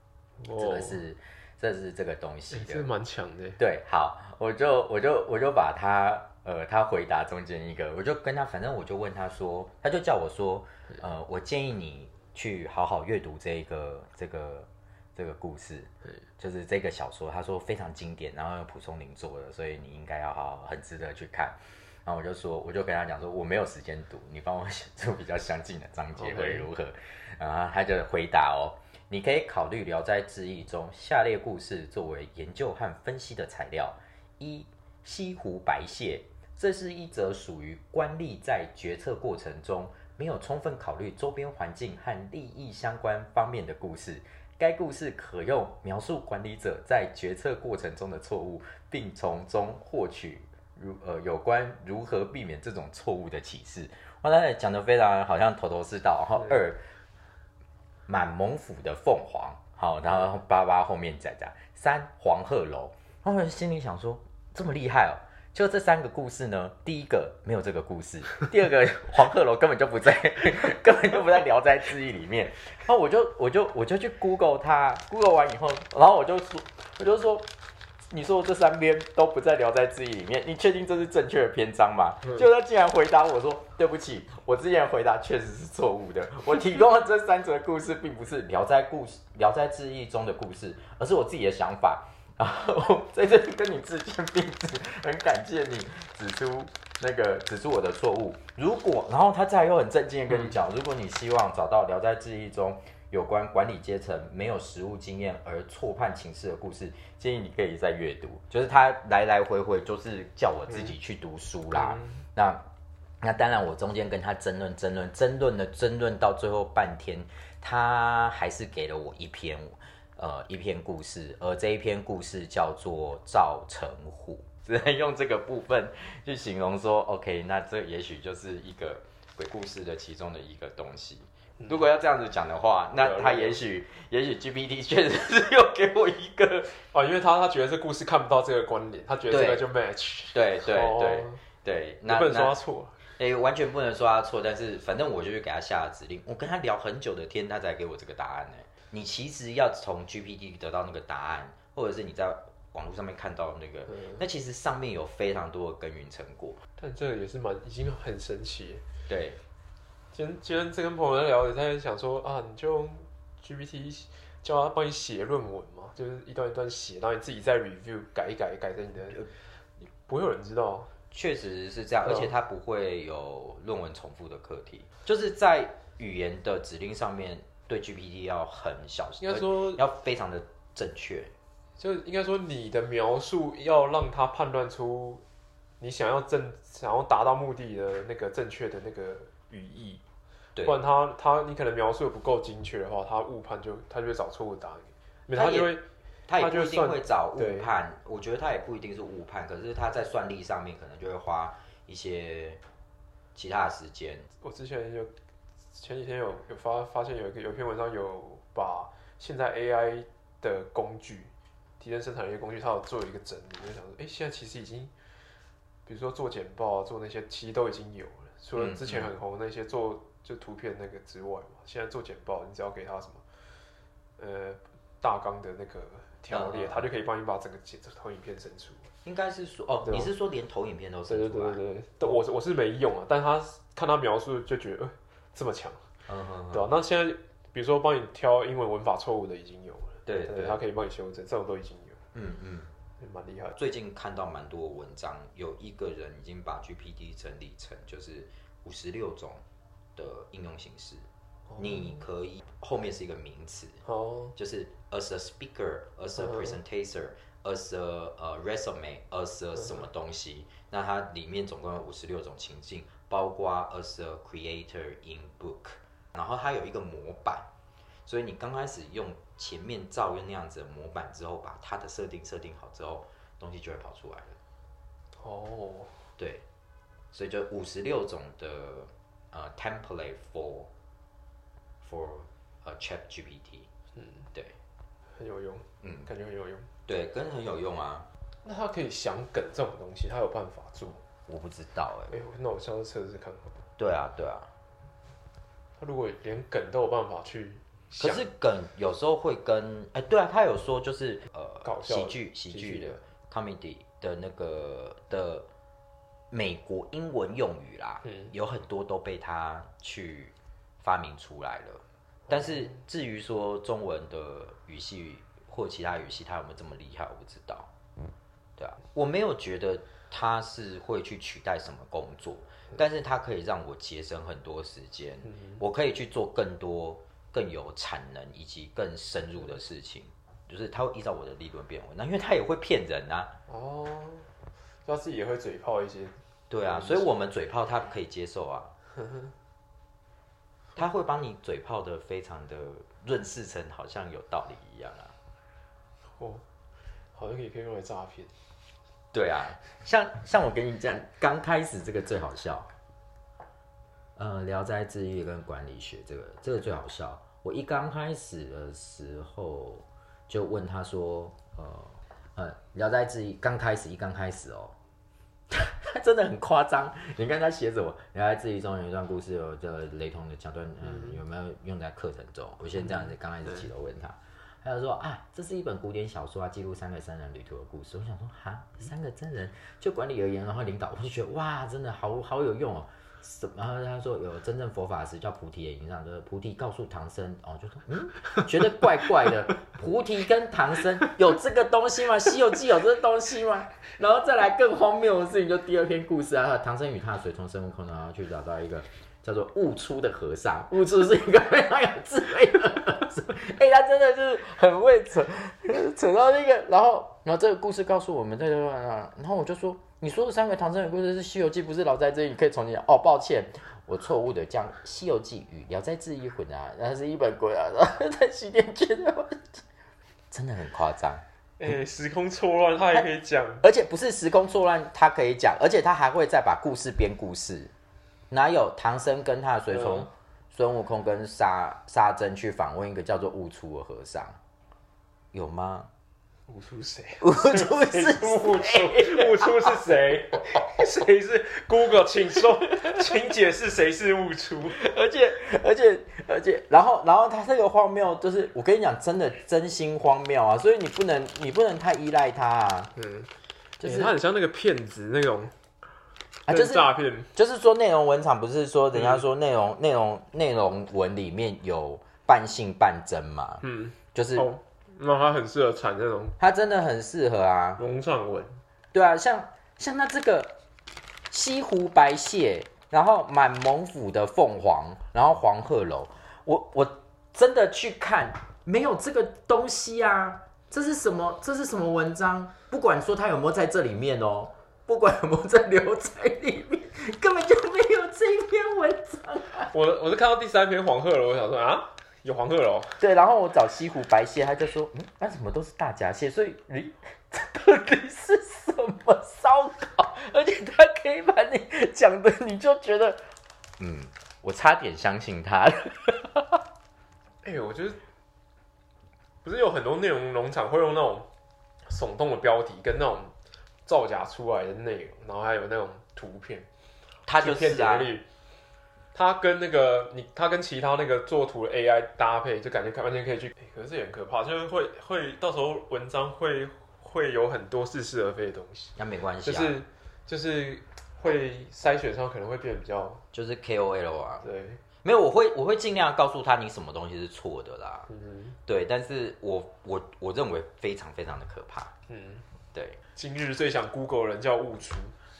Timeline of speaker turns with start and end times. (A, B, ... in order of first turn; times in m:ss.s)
0:00.4-0:01.0 A
0:00.5-0:02.9 B
0:02.5-0:03.6 A
0:03.6-0:56.8 B
0:26.2-0:26.7 A
0:58.1-1:17.5 B
1:18.1-1:52.6 B
1:51.7-1:52.2 A
1:53.2-2:16.8 B
2:13.0-2:13.6 A
2:16.9-2:21.4 A
2:19.3-2:19.7 B
2:20.3-2:22.5 B
2:22.1-2:23.0 A
2:23.2-2:36.6 B
2:36.8-2:38.8 A
2:39.1-2:39.4 B
2:40.1-2:49.3 A
2:50.0-2:50.9 A
2:51.1-3:01.3 B
2:59.2-2:59.8 A
3:01.8-3:05.2 A
3:05.8-3:10.0 A
3:10.6-3:17.7 A
3:15.3-3:15.8 B
3:16.3-3:22.6 B
3:23.3-3:24.3 B
3:24.4-3:25.1 A
3:25.7-3:34.9 A
3:35.8-3:43.2 A
3:38.6-3:39.1 B
3:44.2-3:48.9 A
3:46.3-3:46.8 B
3:49.0-3:52.2 B
3:49.8-3:50.1 A
3:51.1-3:55.9 A
3:56.0-3:56.7 B
3:56.5-4:02.0 A
4:00.0-4:00.6 B
4:02.1-4:02.7 B
4:03.0-4:03.6 A
4:03.6-4:09.4 B
4:10.0-4:11.0 B
4:11.5-4:11.8 A
4:11.6-4:13.8 B
4:13.8-4:14.3 A
4:14.4-4:27.5 B
4:16.2-4:16.5 A
4:28.0-4:34.4 B
4:35.1-4:36.1 A
4:36.2-4:36.4 B
4:37.1-4:40.7 B
4:41.8-4:43.7 B
4:44.0-4:44.2 A
4:45.1-4:46.7 A
4:45.8-4:46.1 B
4:46.9-4:48.1 B
4:48.4-4:51.0 A
4:51.2-4:52.1 B
4:52.1-4:53.6 A
4:53.8-4:54.5 B
4:55.8-4:58.3 A
4:58.0-5:05.5 B
5:01.6-5:03.0 A
5:06.3-5:17.7 B
5:08.0-5:08.3 A
5:12.3-5:12.8 A
5:18.6-5:33.3 B
5:33.5-5:34.3 A
5:34.8-5:37.1 A
5:36.5-5:38.7 B
5:39.0-5:39.3 A
5:40.8-5:45.1 B
5:46.2-5:46.4 A
5:47.1-5:48.3 A
5:49.1-5:52.7 B
5:54.2-6:04.8 B
6:05.5-6:59.6 B
7:00.3-7:01.7 B
7:01.6-7:03.6 A
7:03.6-7:07.7 B
7:08.3-7:14.4 B
7:09.7-7:10.1 A
7:15.3-7:15.9 B
7:16.5-7:24.8 A
7:17.2-7:19.7 B
7:24.8-7:32.9 B
7:33.0-7:33.3 A
7:33.8-7:34.1 B
7:33.8-7:35.6 A
7:36.5-7:44.5 B
7:36.5-7:37.3 A
7:43.6-7:46.4 A
7:46.4-7:47.8 B
7:47.8-7:48.6 A
7:48.9-7:50.6 B
7:51.3-8:09.7 B
8:09.7-8:13.0 A
8:13.0-8:23.2 B
8:23.8-8:26.6 B
8:27.4-8:28.0 A
8:29.4-8:31.3 A
8:31.8-8:36.7 A
8:37.2-8:38.1 B
8:37.4-8:38.2 A
8:39.1-8:53.2 A
8:49.0-8:49.8 B
8:53.3-8:54.4 B
8:54.4-8:54.8 A
8:55.0-8:58.1 B
8:58.1-8:58.6 A
8:58.6-9:01.9 B
9:02.1-9:02.4 A
9:02.7-9:03.0 B
9:03.1-9:05.2 A